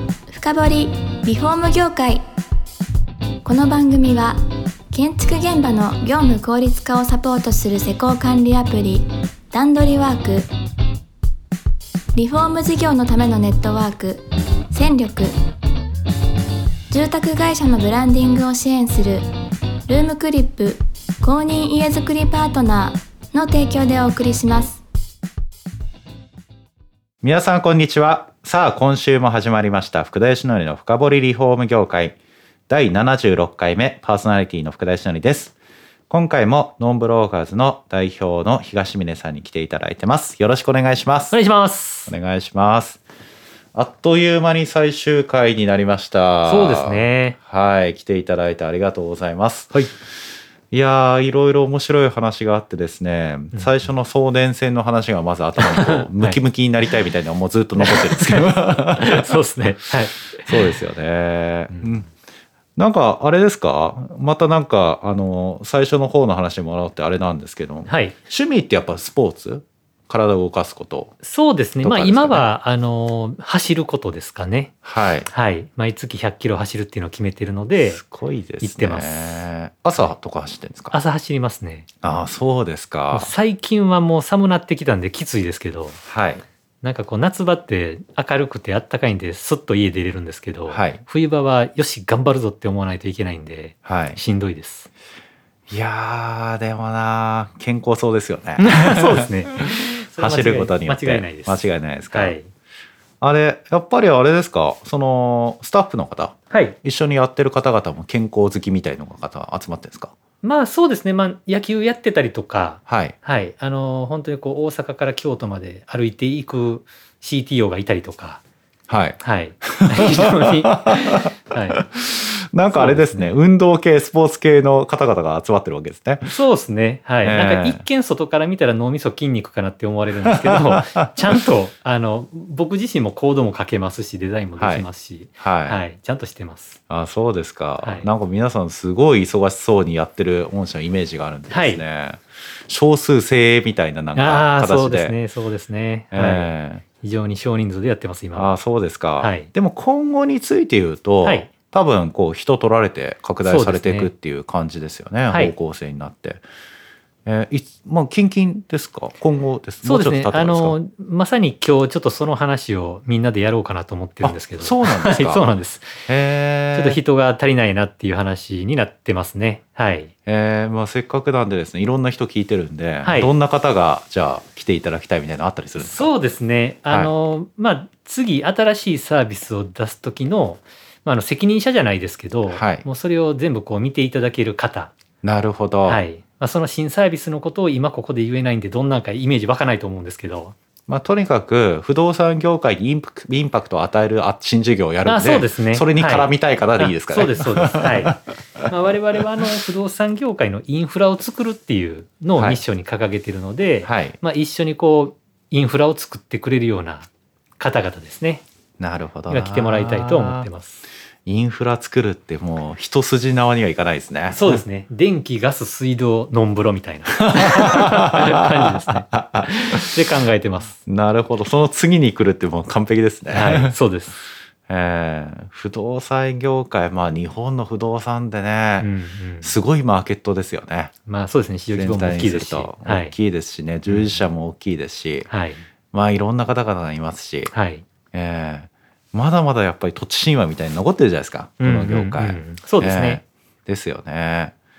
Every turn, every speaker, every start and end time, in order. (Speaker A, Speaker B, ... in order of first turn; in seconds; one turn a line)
Speaker A: 0.3-2.2
Speaker A: 3.4-4.4
Speaker A: 4.9-10.5
Speaker A: 12.1-15.3
Speaker A: 16.9-19.3
Speaker A: 19.9-24.8
Speaker B: 27.2-32.2
Speaker B: 32.7-35.5
Speaker B: 36.1-41.4
Speaker C: 41.3-42.1
Speaker B: 42.1-43.0
Speaker B: 43.7-49.7
Speaker C: 46.4-47.4
Speaker B: 50.7-59.4
Speaker C: 55.6-56.4
Speaker C: 57.8-60.7
Speaker B: 60.5-62.1
Speaker B: 62.8-71.1
Speaker C: 67.9-68.2
Speaker C: 71.2-74.7
Speaker B: 71.8-72.5
Speaker B: 74.8-75.3
Speaker C: 75.3-78.0
Speaker B: 77.8-81.0
Speaker C: 78.6-80.1
Speaker C: 80.9-81.9
Speaker B: 82.0-83.3
Speaker C: 83.1-86.0
Speaker B: 86.0-86.4
Speaker C: 86.8-94.9
Speaker B: 90.7-91.0
Speaker B: 93.8-94.2
Speaker B: 95.7-102.3
Speaker C: 98.6-102.5
Speaker B: 103.2-110.1
Speaker C: 106.5-106.8
Speaker C: 110.4-118.4
Speaker B: 112.9-113.2
Speaker B: 118.9-126.4
Speaker C: 119.2-121.9
Speaker C: 122.7-123.4
Speaker C: 126.2-136.8
Speaker B: 127.2-127.8
Speaker B: 130.2-131.0
Speaker B: 134.6-134.9
Speaker B: 135.4-135.8
Speaker B: 136.9-145.2
Speaker C: 137.8-138.1
Speaker C: 141.5-141.8
Speaker C: 144.1-148.5
Speaker B: 146.1-146.8
Speaker B: 148.3-156.4
Speaker C: 149.2-149.5
Speaker C: 151.2-151.5
Speaker C: 153.4-154.1
Speaker C: 155.3-155.5
Speaker B: 157.2-160.8
Speaker C: 159.8-166.0
Speaker B: 164.2-165.5
Speaker B: 166.1-167.0
Speaker C: 166.7-170.1
Speaker B: 170.2-176.1
Speaker C: 173.0-173.3
Speaker C: 175.8-184.9
Speaker B: 182.5-182.8
Speaker B: 185.2-186.0
Speaker C: 185.8-190.6
Speaker B: 190.9-198.2
Speaker C: 195.0-208.4
Speaker B: 202.3-202.6
Speaker B: 203.8-204.2
Speaker B: 208.8-210.5
Speaker C: 209.3-210.8
Speaker B: 211.2-214.6
Speaker C: 214.3-220.8
Speaker B: 217.5-218.3
Speaker B: 219.1-219.9
Speaker B: 220.8-223.8
Speaker C: 223.3-224.2
Speaker B: 224.7-228.9
Speaker C: 228.8-229.5
Speaker B: 229.4-230.9
Speaker C: 231.1-233.1
Speaker B: 231.7-235.3
Speaker C: 233.9-234.2
Speaker C: 235.3-235.6
Speaker B: 235.9-237.5
Speaker C: 237.5-237.8
Speaker B: 238.1-244.5
Speaker C: 241.6-243.2